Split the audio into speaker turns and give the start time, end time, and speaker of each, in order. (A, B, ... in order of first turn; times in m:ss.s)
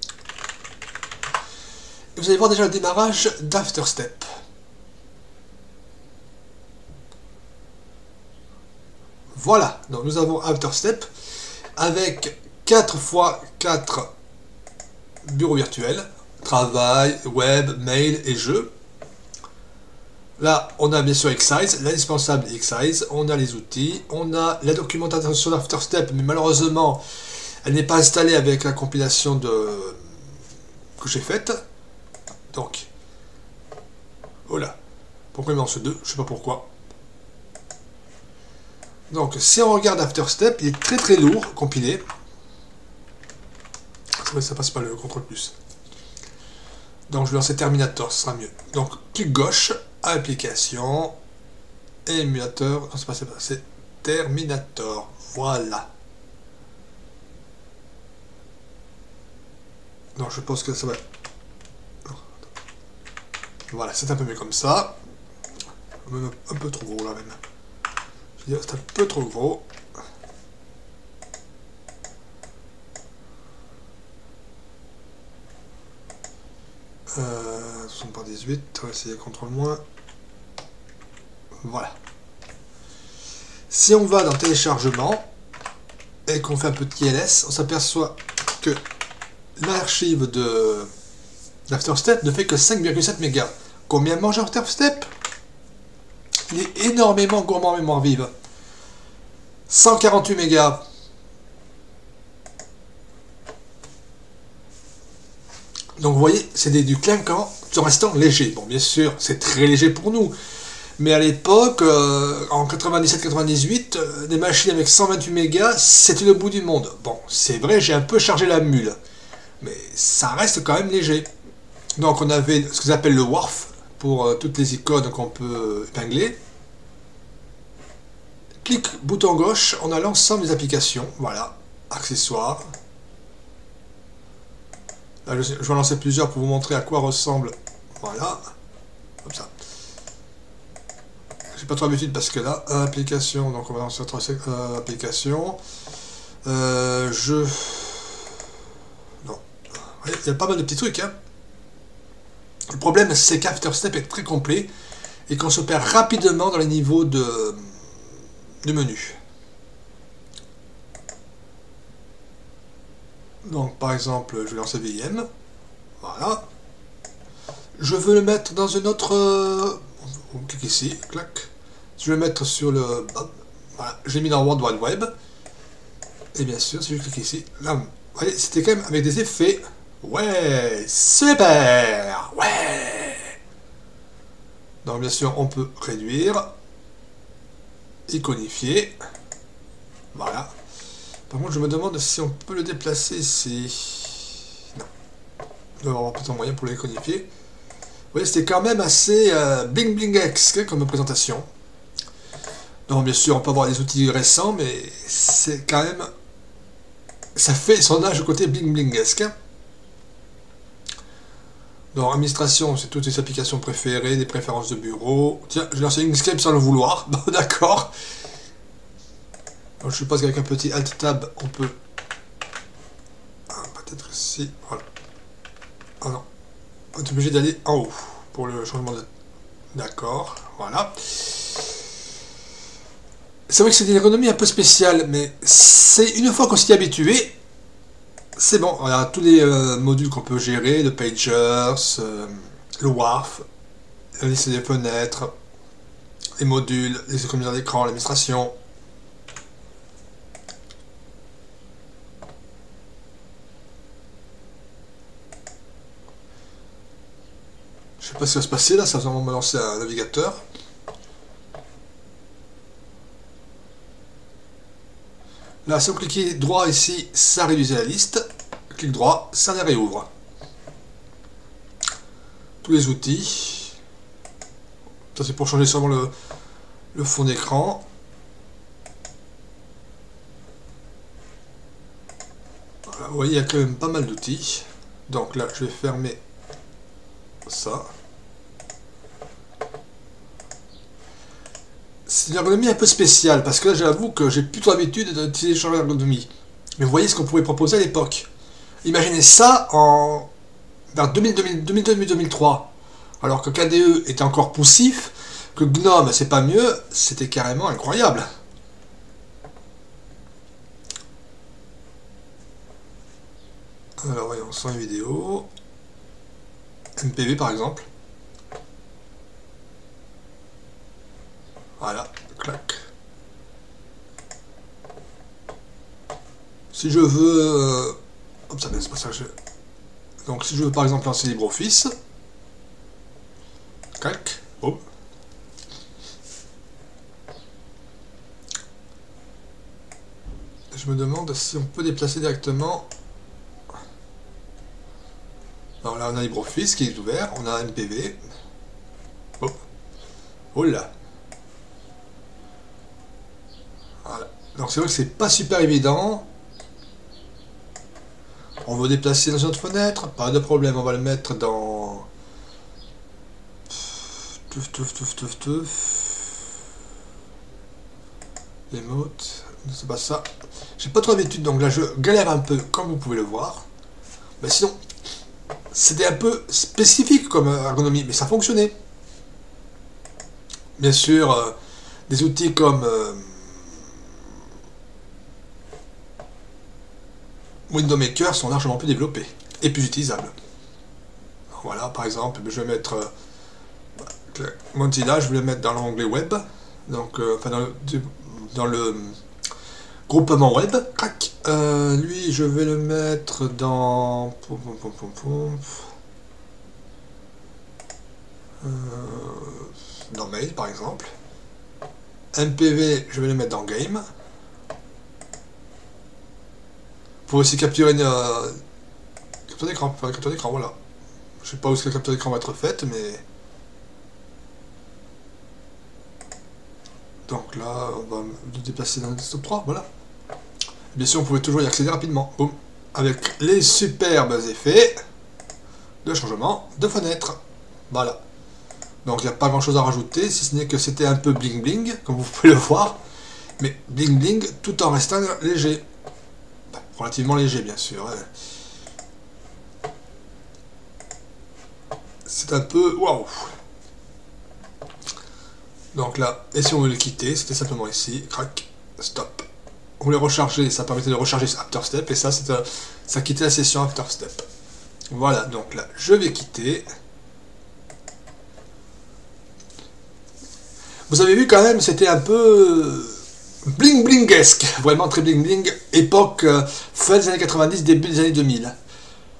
0:02.2-0:04.2 A
0:09.3-0:11.1 A
0:11.8-0:14.1 A
0:15.2-0:18.7 A
0:20.4-0:27.0 A
0:27.6-0:30.0 A
0:31.0-0:31.6 A
0:32.5-0:32.9 A
0:34.5-0:34.8 A
0:35.3-0:36.7 A
0:39.1-0:42.0 A
0:44.2-0:45.5 A
0:47.1-0:51.1 A
0:52.0-0:55.9 A
1:00.2-1:01.0 A
1:02.0-1:02.4 A
1:03.7-1:05.0 A
1:06.0-1:07.4 A
1:08.4-1:09.7 A
1:17.1-1:19.8 A
1:21.6-1:22.0 A
1:23.7-1:25.3 A
1:26.3-1:28.8 A
1:29.6-1:30.9 A
1:31.7-1:35.1 A
1:36.5-1:38.3 A
1:39.7-1:40.8 A
1:46.0-1:50.3 A
1:51.0-1:59.0 A
1:59.6-2:01.3 A
2:02.0-2:06.4 A
2:08.6-2:12.6 A
2:15.2-2:18.4 A
2:19.2-2:19.5 A
2:21.5-2:25.6 A
2:26.4-2:28.3 A
2:29.2-2:31.1 A
2:32.7-2:34.7 A
2:35.3-2:37.8 A
2:38.6-2:39.2 A
2:43.4-2:45.3 A
2:46.0-2:46.4 A
2:47.8-2:55.1 A
2:56.3-3:03.3 A
3:04.8-3:06.5 A
3:08.1-3:09.0 A
3:10.1-3:10.5 A
3:11.3-3:14.9 A
3:15.8-3:17.3 A
3:18.1-3:21.5 A
3:22.9-3:26.1 A
3:27.4-3:29.3 A
3:31.9-3:37.9 A
3:39.8-3:41.8 A
3:43.5-3:44.8 A
3:46.9-3:49.0 A
3:49.7-3:51.7 A
3:53.5-3:57.4 A
3:58.4-4:03.4 A
4:04.2-4:05.3 A
4:06.4-4:08.5 A
4:18.0-4:20.4 A
4:25.6-4:30.1 A
4:32.6-4:33.8 A
4:35.1-4:36.1 A
4:36.9-4:37.8 A
4:42.9-4:46.2 A
4:47.4-4:47.9 A
4:52.1-4:58.3 A
4:58.8-5:00.3 A
5:00.9-5:08.2 A
5:14.0-5:15.5 A
5:17.0-5:17.8 A
5:21.8-5:22.8 A
5:26.7-5:28.0 A
5:28.5-5:29.3 A
5:30.2-5:31.9 A
5:34.0-5:34.8 A
5:40.7-5:42.9 A
5:45.8-5:48.2 A
5:50.5-5:50.9 A
5:54.0-5:56.3 A
5:58.6-6:02.1 A
6:03.7-6:06.4 A
6:08.7-6:10.2 A
6:10.8-6:13.6 A
6:14.4-6:14.8 A
6:15.7-6:18.7 A
6:20.8-6:21.5 A
6:22.1-6:23.7 A
6:27.7-6:30.3 A
6:31.5-6:33.1 A
6:34.2-6:39.2 A
6:40.1-6:45.8 A
6:48.6-6:51.1 A
6:52.3-6:54.0 A
6:57.3-6:58.6 A
6:59.5-7:00.7 A
7:01.4-7:03.2 A
7:07.3-7:09.8 A
7:10.9-7:15.0 A
7:16.0-7:17.4 A
7:17.9-7:18.2 A
7:19.0-7:23.0 A
7:23.6-7:25.8 A
7:26.7-7:28.3 A
7:32.2-7:33.5 A
7:35.9-7:39.4 A
7:40.0-7:44.4 A
7:45.1-7:46.8 A
7:51.1-7:58.8 A